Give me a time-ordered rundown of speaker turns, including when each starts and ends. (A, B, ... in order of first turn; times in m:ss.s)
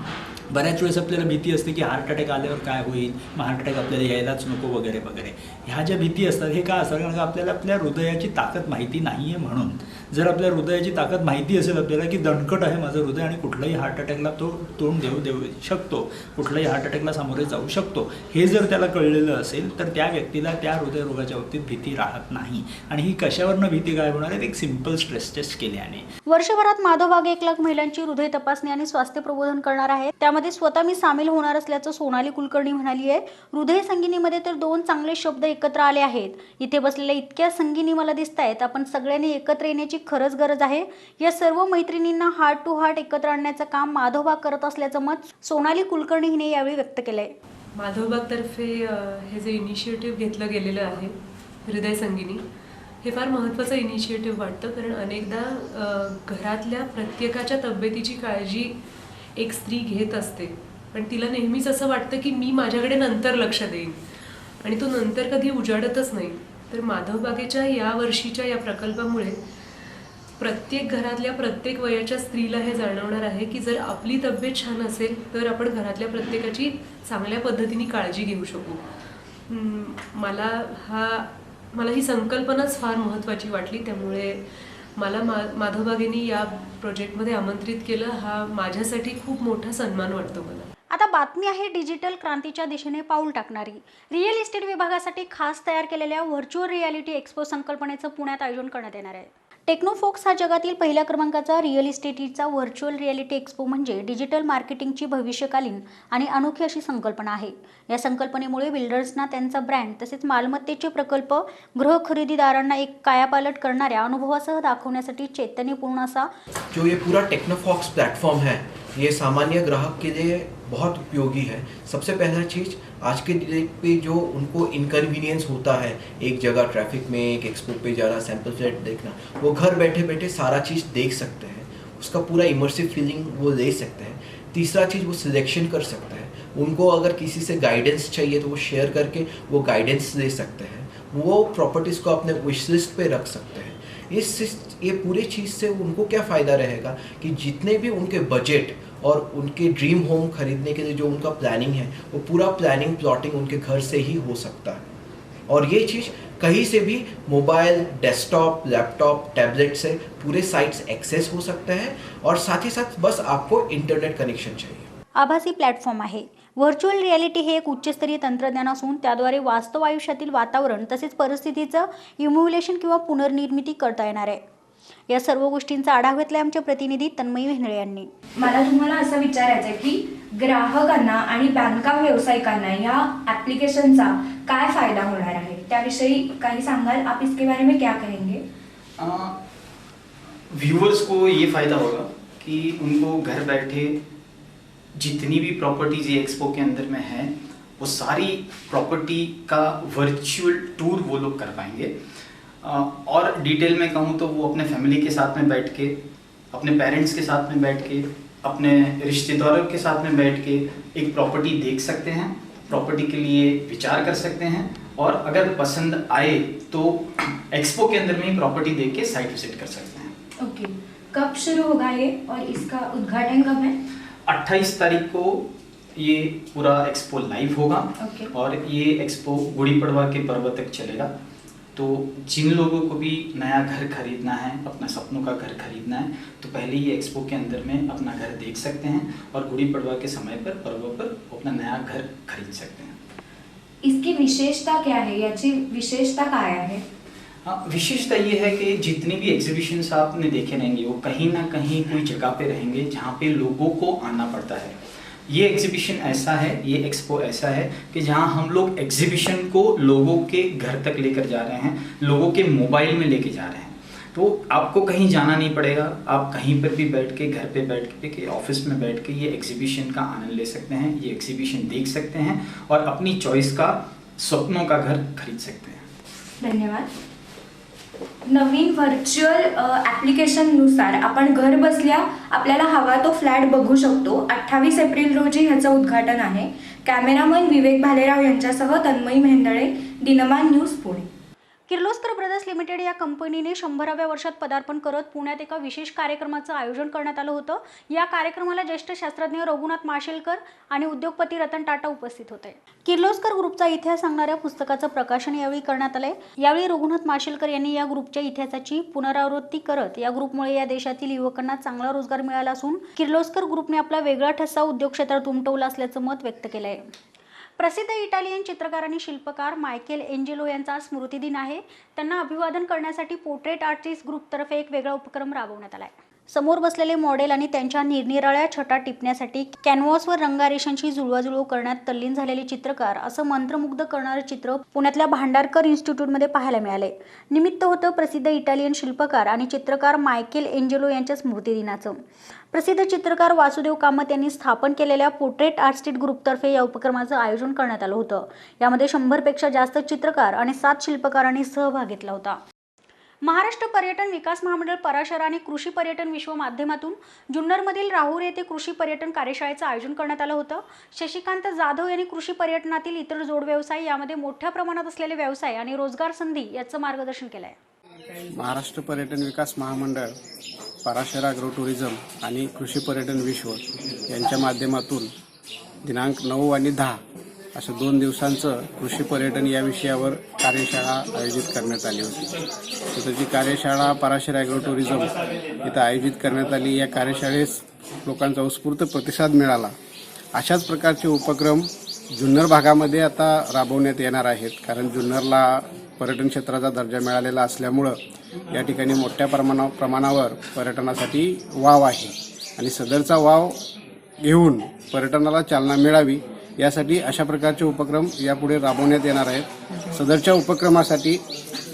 0:00.5-0:26.1 A
0:26.3-0:47.3 B
0:47.8-0:52.4 C
0:53.0-0:58.8 C
0:59.4-1:04.0 C
1:04.6-1:09.4 C
1:10.4-1:18.8 C
1:19.5-1:24.5 C
1:25.0-1:30.7 C
1:30.9-1:56.3 B
1:56.7-2:34.8 D
2:35.5-2:44.9 D
2:45.2-2:54.4 B
2:55.1-2:58.1 B
2:58.4-3:08.4 E
3:09.0-3:09.4 F
3:10.5-3:14.0 F
3:15.0-3:22.0 F
3:22.6-3:26.0 F
3:26.5-3:40.1 F
3:40.4-3:43.8 E
3:44.3-3:51.1 F
3:48.0-3:48.3 E
3:51.8-4:03.0 F
4:03.8-4:06.8 E
4:07.4-4:35.8 F
4:36.4-4:36.9 E
4:38.3-4:51.1 E
4:51.7-5:16.8 B
5:17.6-5:42.0 B
5:42.5-5:52.4 B
5:53.2-6:07.6 B
6:08.4-6:10.2 G
6:10.8-6:15.1 G
6:15.8-6:17.0 G
6:17.6-6:22.3 G
6:22.9-6:29.7 G
6:30.4-6:38.0 G
6:38.5-6:43.6 G
6:44.2-6:51.2 G